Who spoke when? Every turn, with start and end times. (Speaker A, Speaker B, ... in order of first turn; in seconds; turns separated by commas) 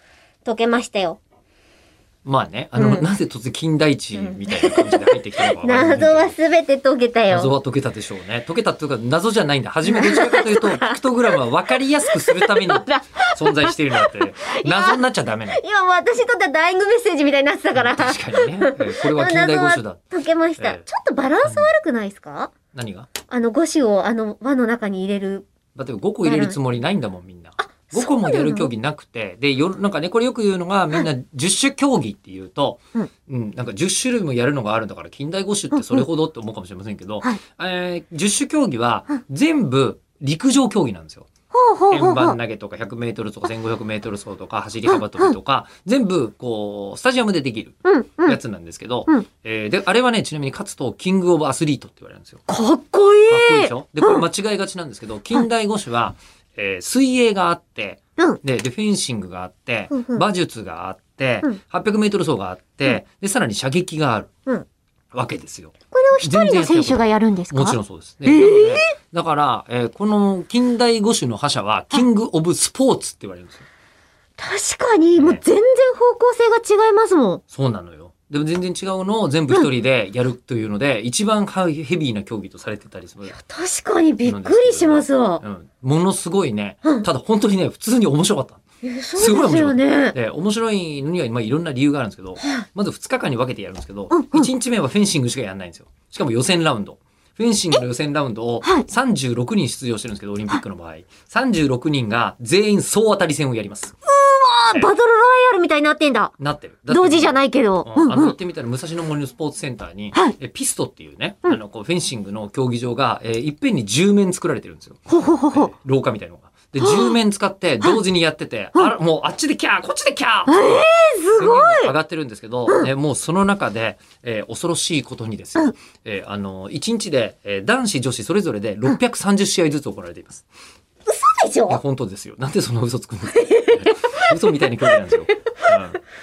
Speaker A: 0.4-1.2, Speaker B: 2.2-6.3, Speaker A: 2.8-3.0, Speaker A: 4.2-7.5, Speaker B: 7.3-15.6, Speaker A: 9.9-11.3, Speaker A: 12.1-22.5, Speaker B: 17.7-20.0, Speaker B: 20.6-20.8, Speaker B: 21.4-21.7, Speaker B: 22.7-23.1, Speaker A: 23.3-25.4, Speaker B: 25.7-41.3, Speaker A: 26.2-26.6, Speaker A: 27.6-28.7, Speaker A: 35.7-36.0, Speaker A: 41.5-42.4, Speaker B: 41.9-52.4, Speaker A: 44.9-45.4, Speaker A: 47.8-48.4, Speaker A: 52.5-54.2, Speaker B: 53.3-64.3, Speaker A: 59.9-60.2, Speaker B: 65.1-73.7, Speaker A: 65.9-68.9, Speaker A: 74.4-77.4, Speaker B: 75.2-75.4, Speaker B: 77.5-83.4, Speaker A: 83.3-85.4, Speaker B: 84.2-88.6, Speaker A: 88.8-90.1, Speaker B: 89.2-103.9, Speaker A: 92.4-92.6, Speaker A: 94.1-94.5, Speaker A: 98.6-98.9, Speaker A: 104.1-106.3, Speaker B: 106.4-115.0, Speaker A: 106.9-108.3, Speaker A: 115.1-115.7, Speaker B: 115.5-130.5, Speaker A: 116.8-117.2, Speaker A: 120.5-121.9, Speaker A: 131.1-131.8, Speaker B: 131.7-136.0, Speaker A: 133.3-135.6